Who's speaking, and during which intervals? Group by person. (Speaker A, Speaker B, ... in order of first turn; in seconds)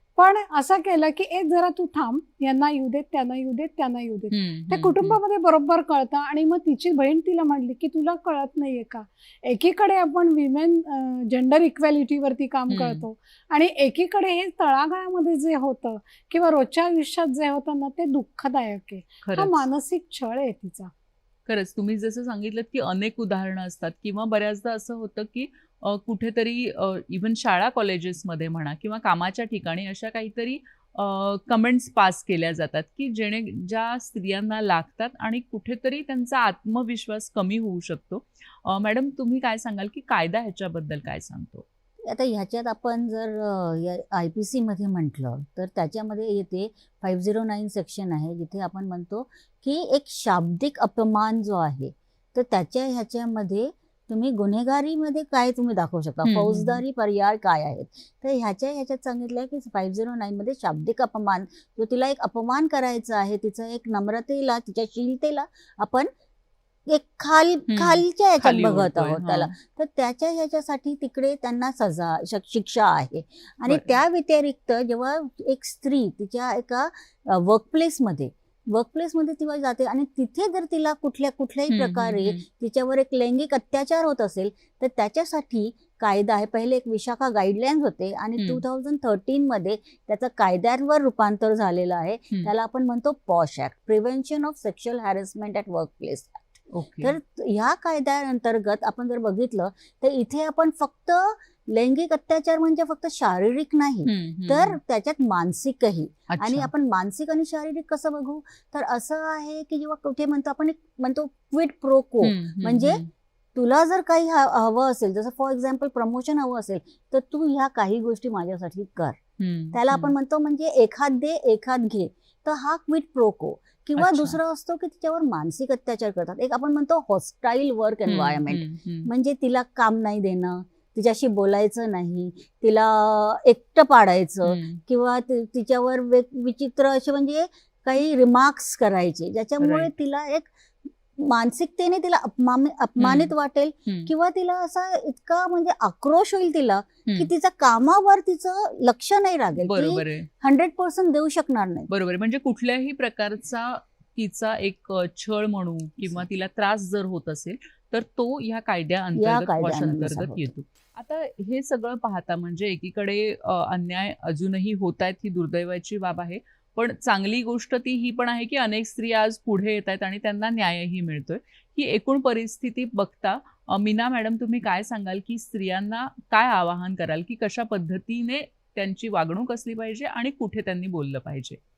Speaker A: 0.2-20.9
Speaker B: 4.3-5.2, 12.7-13.0, 19.2-19.7, 21.5-41.6, 56.2-56.8, 67.7-69.5, 73.7-73.9, 81.7-82.4, 88.4-88.6, 96.7-97.2, 104.0-104.8, 106.3-106.7, 112.2-113.1, 119.4-120.1, 124.0-124.4, 128.1-129.1, 134.4-134.8, 139.6-139.9, 143.0-143.3, 143.9-144.1, 149.6-150.3, 151.9-181.6
Speaker C: 42.0-66.1, 66.9-113.0, 113.5-119.2, 119.7-140.5, 141.2-151.9, 159.2-160.5